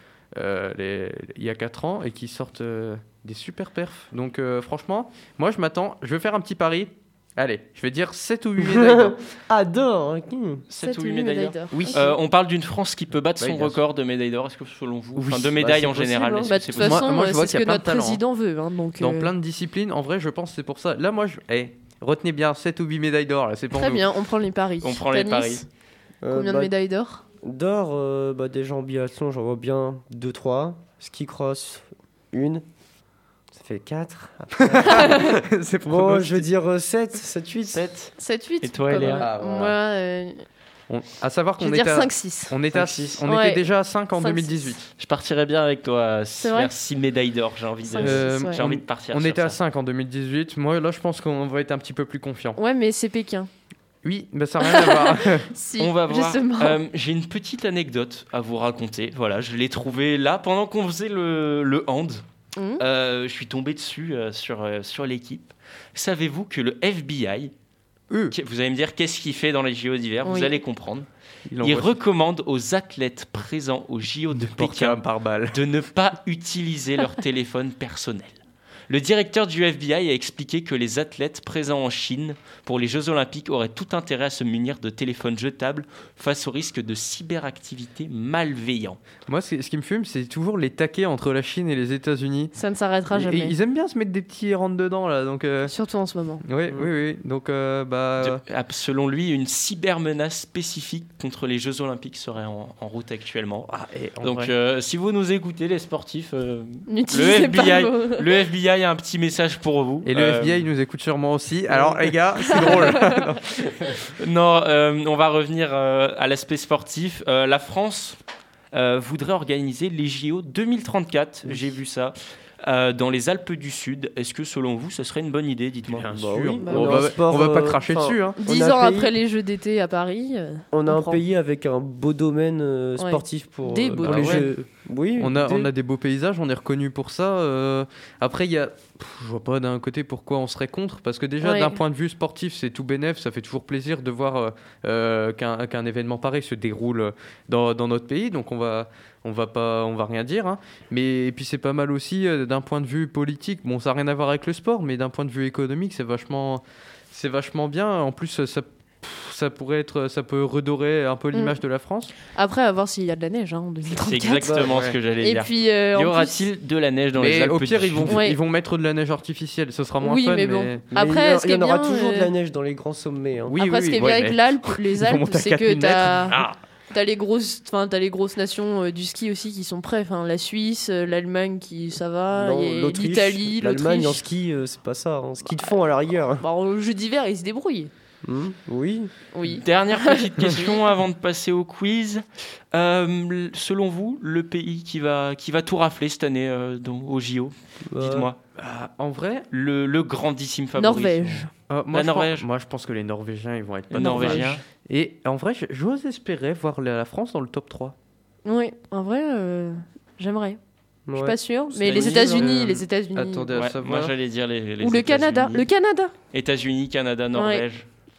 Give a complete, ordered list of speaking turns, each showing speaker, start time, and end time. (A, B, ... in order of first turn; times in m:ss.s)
0:00.3-0:09.2 A
0:08.6-0:10.6 B
0:10.7-0:17.1 C
0:10.8-0:12.1 D
0:11.7-0:12.0 A
0:13.4-0:13.8 A
0:15.2-0:16.2 A
0:16.0-0:16.5 B
0:16.5-0:19.3 D
0:16.8-0:18.2 A
0:19.0-0:24.0 A
0:23.7-0:25.7 D
0:24.8-0:25.6 C
0:26.2-0:26.7 B
0:26.3-0:27.2 D
0:27.4-0:32.6 B
0:33.5-0:37.8 B
0:34.6-0:36.4 A
0:34.9-0:35.2 D
0:37.7-0:39.3 C
0:38.2-0:40.4 D
0:39.0-0:39.8 A
0:40.9-0:44.9 A
0:41.6-0:42.5 D
0:42.7-0:43.2 C
0:43.2-0:43.6 D
0:44.2-0:44.7 D
0:45.0-0:49.6 C
0:46.4-0:46.7 D
0:47.8-0:48.6 D
0:48.0-0:52.6 A
0:52.6-0:53.5 D
0:54.0-0:55.5 A
0:54.6-0:56.8 D
0:55.8-1:02.2 C
1:02.6-1:02.8 D
1:02.8-1:07.5 C
1:08.1-1:08.3 A
1:08.3-1:11.1 C
1:10.2-1:10.6 D
1:11.5-1:11.9 A
1:11.6-1:15.0 C
1:14.3-1:15.6 A
1:15.5-1:18.4 C
1:18.9-1:29.0 C
1:29.3-1:32.5 A
1:32.5-1:33.6 D
1:33.1-1:35.7 A
1:35.6-1:36.4 D
1:36.4-1:38.4 A
1:38.2-1:43.7 C
1:43.6-1:44.5 A
1:44.2-1:50.7 C
1:46.9-1:48.3 D
1:50.0-1:54.0 A
1:52.8-1:53.2 D
1:54.2-1:58.2 C
1:58.7-2:06.1 C
2:05.9-2:08.4 A
2:06.1-2:09.1 B
2:06.6-2:07.0 D
2:08.4-2:11.2 D
2:10.7-2:15.7 B
2:13.0-2:14.5 D
2:14.0-2:14.5 A
2:15.2-2:42.1 A
2:21.4-2:21.8 D
2:42.3-2:44.6 D
2:44.0-2:48.2 C
2:44.4-2:44.8 B
2:44.7-2:45.0 A
2:45.2-2:46.4 D
2:47.2-2:50.8 A
2:48.1-2:48.4 D
2:50.0-2:52.3 D
2:50.9-2:53.6 B
2:53.5-2:56.6 A
2:53.6-2:56.4 D
2:56.9-3:04.2 D
3:02.3-3:06.4 B
3:06.4-3:07.9 D
3:08.2-3:09.1 B
3:09.3-3:10.7 D
3:09.6-3:18.4 C
3:17.9-3:18.3 B
3:18.5-3:19.5 A
3:19.5-3:22.4 C
3:20.8-3:21.5 D
3:21.7-3:27.9 A
3:23.9-3:24.6 C
3:24.0-3:24.5 D
3:28.4-3:30.6 D
3:31.0-3:32.4 B
3:31.1-3:33.5 D
3:31.8-3:32.5 C
3:32.3-3:34.1 A
3:33.5-3:35.7 C
3:34.8-3:36.1 D
3:36.3-3:37.8 C
3:37.3-3:37.6 D